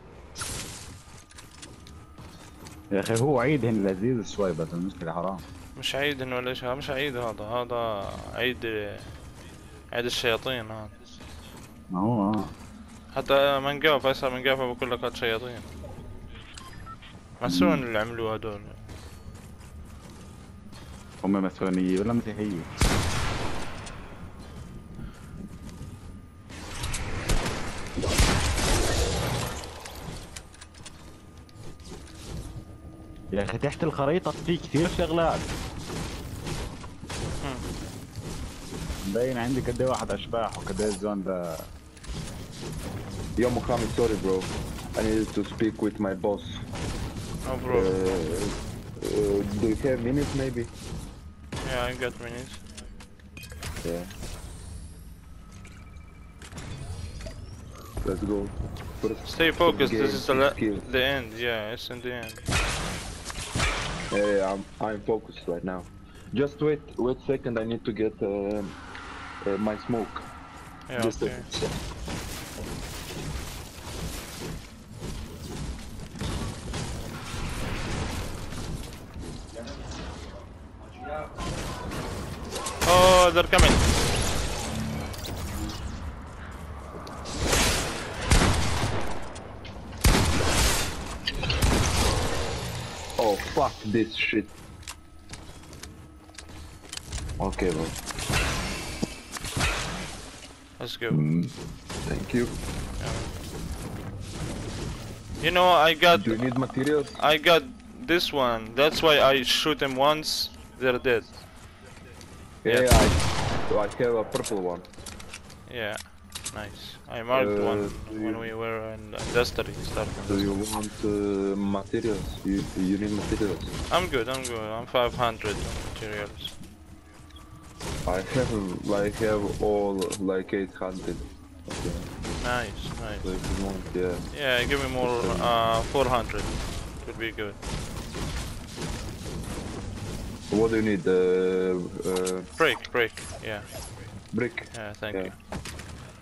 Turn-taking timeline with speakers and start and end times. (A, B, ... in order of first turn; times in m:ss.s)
0:02.9-0:05.4 A
0:05.8-0:09.2 B
0:09.9-0:10.9 B
0:11.9-0:12.5 A
0:13.1-0:15.7 B
0:17.4-0:18.9 B
0:17.4-0:17.8 A
0:21.2-0:22.7 A
0:33.3-0:35.5 A
0:39.0-0:41.7 A
0:43.4-0:46.6 C
0:47.4-0:48.2 B
0:47.7-0:50.7 C
0:51.6-0:52.6 B
0:53.8-0:54.1 C
0:58.0-1:00.9 C
0:59.2-1:02.4 B
1:04.1-1:08.7 C
1:09.4-1:10.2 C
1:10.9-1:11.5 B
1:10.9-1:11.7 C
1:22.8-1:23.8 B
1:33.2-1:34.5 C
1:37.4-1:38.0 C
1:40.8-1:41.2 B
1:41.1-1:41.5 C
1:42.0-1:42.6 C
1:43.0-1:43.3 B
1:45.4-1:46.4 B
1:46.1-1:47.2 C
1:47.2-1:51.4 B
1:52.6-1:54.9 C
1:55.7-2:00.6 B
1:57.3-1:58.4 C
2:00.3-2:03.7 C
2:03.9-2:06.6 B
2:08.0-2:12.1 C
2:12.4-2:13.3 B
2:13.2-2:14.3 C
2:14.3-2:17.6 B
2:15.0-2:15.5 C
2:20.5-2:22.5 C
2:22.6-2:23.6 B
2:24.3-2:25.3 C
2:24.7-2:25.4 B